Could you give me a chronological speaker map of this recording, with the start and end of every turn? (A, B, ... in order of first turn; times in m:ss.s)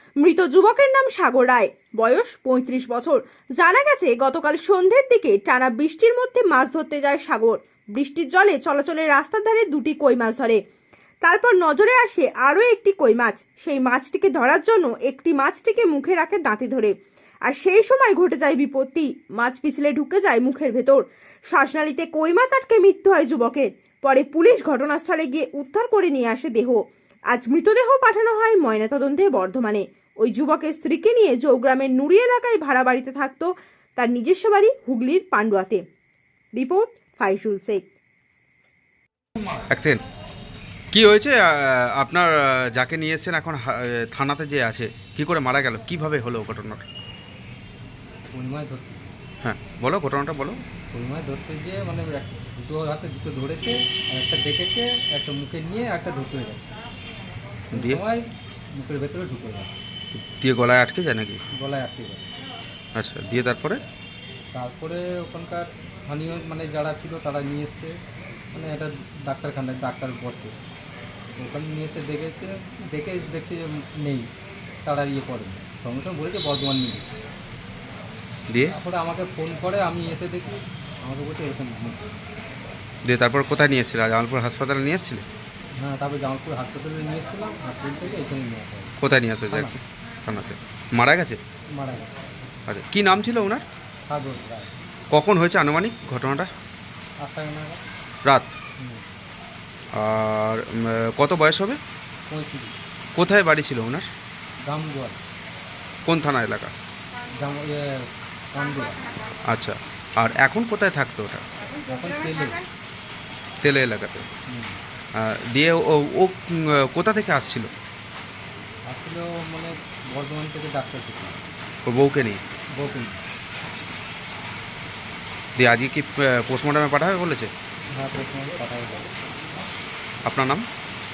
0:00.2-0:10.6 A
0:11.2-0:17.0 A
0:17.5-0:35.8 A
0:36.6-0:37.9 A
0:39.7-0:40.0 B
0:40.9-0:46.8 B
0:48.3-0:49.0 C
0:49.4-0:50.6 B
0:50.9-0:56.7 C
0:57.7-0:59.8 C
0:57.7-0:58.0 B
1:00.1-1:01.4 B
1:01.6-1:02.3 C
1:03.0-1:03.8 B
1:04.5-1:08.0 C
1:08.5-1:10.6 C
1:11.4-1:14.3 C
1:14.8-1:17.1 C
1:18.5-1:18.8 B
1:18.6-1:22.0 C
1:23.0-1:25.2 B
1:25.8-1:29.0 C
1:29.0-1:31.4 B
1:29.5-1:29.8 C
1:31.8-1:32.1 C
1:32.7-1:33.6 B
1:34.1-1:34.7 C
1:35.1-1:36.5 B
1:37.2-1:37.8 C
1:38.2-1:38.5 B
1:38.8-1:39.0 C
1:39.9-1:41.8 B
1:42.3-1:42.8 C
1:43.2-1:44.1 B
1:44.6-1:45.2 C
1:46.0-1:46.7 B
1:47.3-1:49.0 C
1:49.4-1:51.4 B
1:51.8-1:52.7 C
1:53.6-1:54.3 B
1:54.5-1:54.8 C
1:55.2-1:57.7 B
1:58.9-2:01.4 C
2:01.8-2:02.4 B
2:02.8-2:03.2 C
2:05.6-2:07.5 B
2:08.0-2:09.1 C
2:10.2-2:10.6 B